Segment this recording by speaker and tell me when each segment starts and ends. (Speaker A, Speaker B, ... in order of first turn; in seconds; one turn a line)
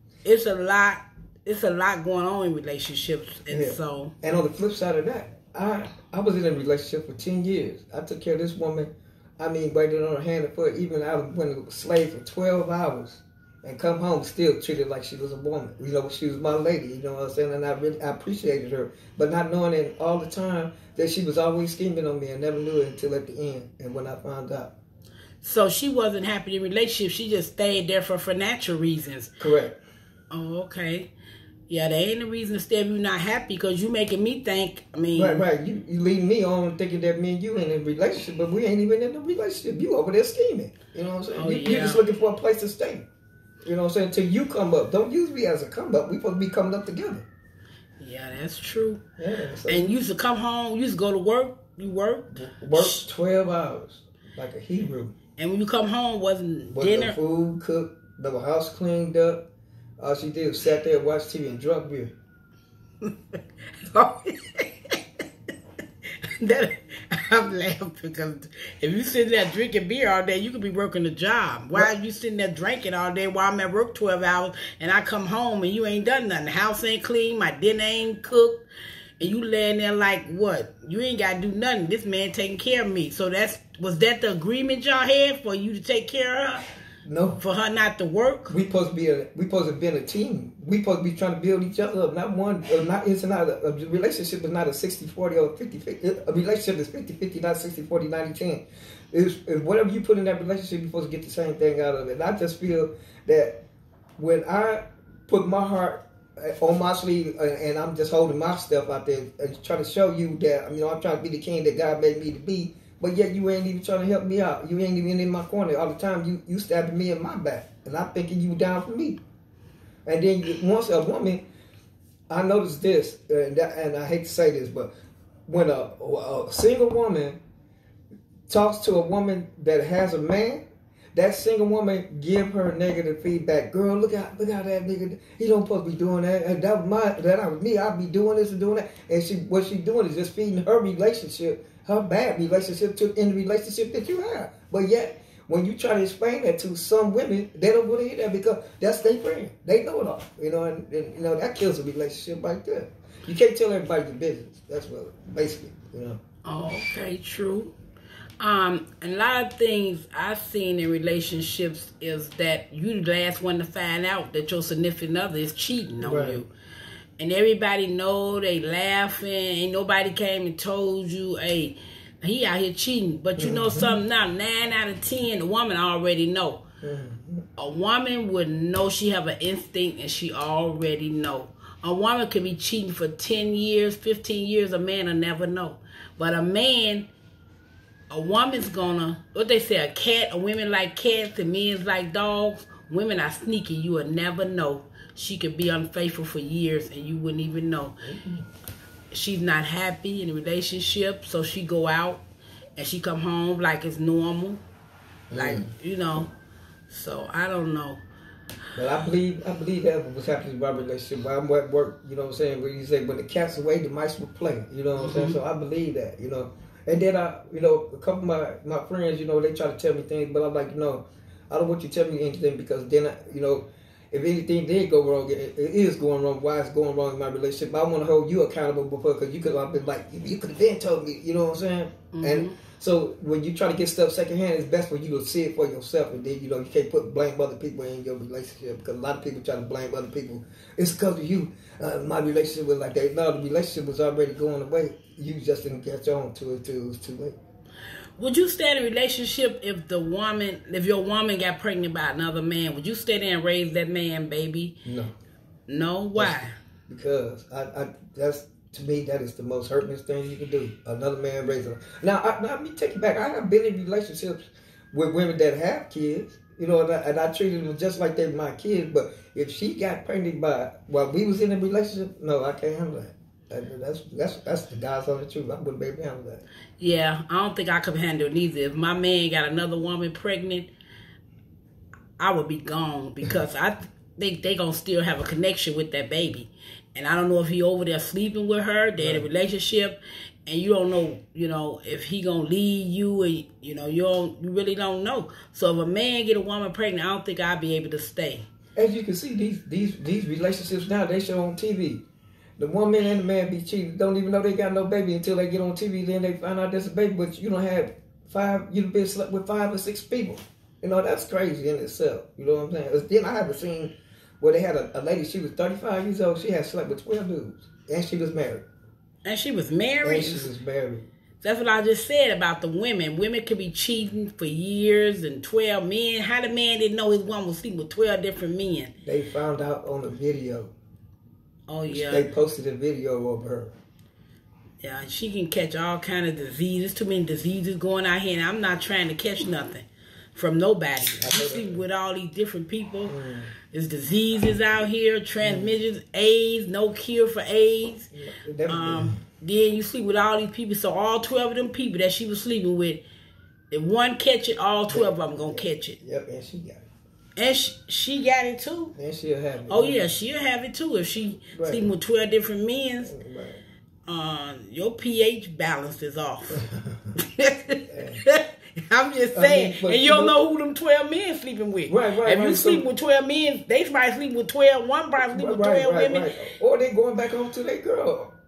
Speaker A: 0.2-4.1
Speaker B: 3.5-24.7
Speaker A: 25.4-29.3
Speaker B: 29.4-29.8
Speaker A: 30.3-31.1
Speaker A: 31.7-35.4
Speaker B: 35.1-43.1
Speaker A: 41.3-42.0
Speaker B: 43.6-47.3
Speaker A: 48.0-49.0
Speaker B: 49.2-49.9
Speaker A: 49.7-53.0
Speaker B: 52.3-55.1
Speaker A: 55.4-57.2
Speaker B: 56.7-59.5
Speaker B: 60.0-62.1
Speaker A: 63.0-65.0
Speaker A: 66.2-78.6
Speaker A: 79.2-86.7
Speaker B: 87.0-87.4
Speaker A: 87.4-88.5
Speaker B: 88.5-103.6
Speaker B: 104.2-119.2
Speaker B: 120.0-121.4
Speaker B: 122.3-124.9
Speaker B: 125.5-127.4
Speaker B: 128.5-130.6
Speaker B: 131.1-156.2
Speaker A: 156.4-157.7
Speaker A: 158.4-166.5
Speaker B: 166.0-166.4
Speaker A: 167.2-176.6
Speaker B: 173.4-174.0
Speaker B: 176.8-177.4
Speaker A: 177.6-187.1
Speaker A: 188.1-198.0
Speaker B: 198.0-198.5
Speaker A: 199.1-202.2
Speaker A: 202.8-204.6
Speaker B: 205.3-205.7
Speaker A: 205.3-206.3
Speaker A: 206.9-208.0
Speaker B: 208.8-247.4
Speaker A: 214.9-215.4
Speaker A: 232.1-232.5
Speaker A: 248.2-254.8
Speaker B: 254.8-255.1
Speaker A: 255.7-256.5
Speaker B: 256.9-276.4
Speaker A: 276.8-280.7
Speaker A: 282.2-298.4
Speaker B: 289.0-289.3
Speaker B: 298.8-302.0
Speaker B: 302.6-318.7
Speaker A: 319.2-320.5
Speaker B: 320.0-321.1
Speaker A: 321.4-328.9
Speaker B: 329.0-330.7
Speaker A: 331.7-332.3
Speaker B: 331.9-333.7
Speaker A: 334.8-343.1
Speaker B: 341.2-341.8
Speaker B: 343.1-343.5
Speaker A: 343.7-348.1
Speaker B: 345.4-345.7
Speaker B: 348.1-349.2
Speaker A: 348.7-353.0
Speaker A: 353.7-356.0
Speaker B: 354.9-356.8
Speaker A: 357.4-358.9
Speaker B: 358.9-360.1
Speaker A: 359.7-363.1
Speaker B: 361.5-361.9
Speaker B: 363.0-363.6
Speaker A: 364.1-366.7
Speaker B: 366.6-367.1
Speaker A: 367.2-376.5
Speaker B: 367.9-368.2
Speaker B: 369.3-370.4
Speaker B: 371.9-372.9
Speaker B: 375.2-378.3